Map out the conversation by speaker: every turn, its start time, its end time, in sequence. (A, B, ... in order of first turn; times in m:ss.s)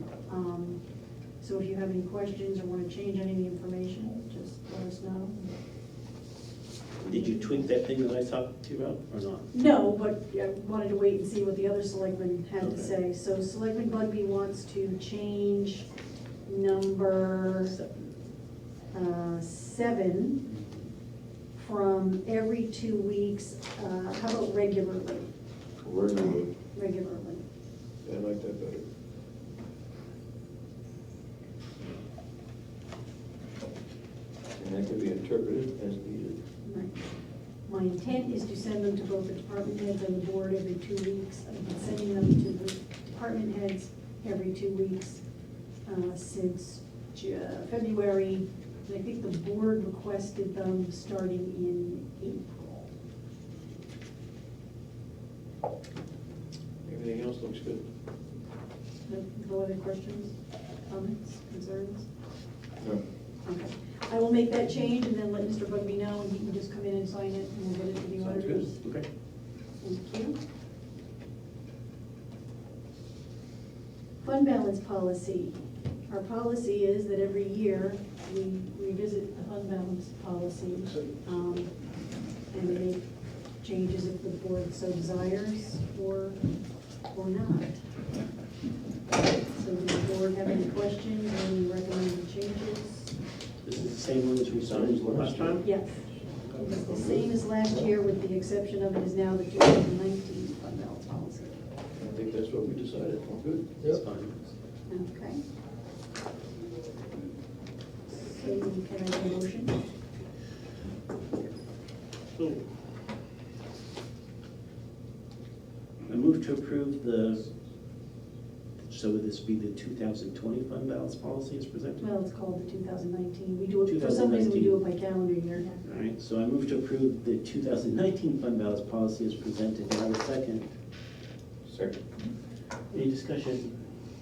0:00.3-0:00.8 A
0:01.4-0:05.4 A
0:07.0-0:09.5 B
0:07.1-0:07.6 A
0:09.5-0:15.9 A
0:12.6-0:13.0 B
0:16.5-0:17.7 A
0:17.6-0:18.2 B
0:18.9-0:20.4 A
0:21.6-0:25.3 A
0:25.8-0:26.5 C
0:26.7-0:27.4 A
0:28.0-0:28.8 C
0:34.6-0:36.4 C
0:36.6-0:37.0 A
0:37.6-0:45.2 A
0:45.8-0:52.9 A
0:56.9-0:57.8 C
0:59.1-1:00.4 A
1:00.9-1:02.1 A
1:03.4-1:08.8 A
1:08.2-1:08.6 C
1:08.8-1:09.1 B
1:09.8-1:10.4 A
1:14.2-1:21.7 A
1:22.5-1:23.0 A
1:23.6-1:26.4 A
1:27.1-1:27.8 A
1:29.5-1:33.1 A
1:33.6-1:35.6 B
1:34.7-1:35.6 C
1:35.6-1:41.6 A
1:36.8-1:37.2 C
1:42.0-1:44.0 C
1:43.8-1:44.4 B
1:44.9-1:45.4 A
1:48.1-1:49.8 A
1:52.4-1:52.6 B
1:56.1-1:57.5 B
1:58.8-2:02.0 B
2:02.0-2:05.7 A
2:03.8-2:04.8 B
2:05.8-2:10.7 B
2:11.7-2:12.0 C
2:12.9-2:13.8 B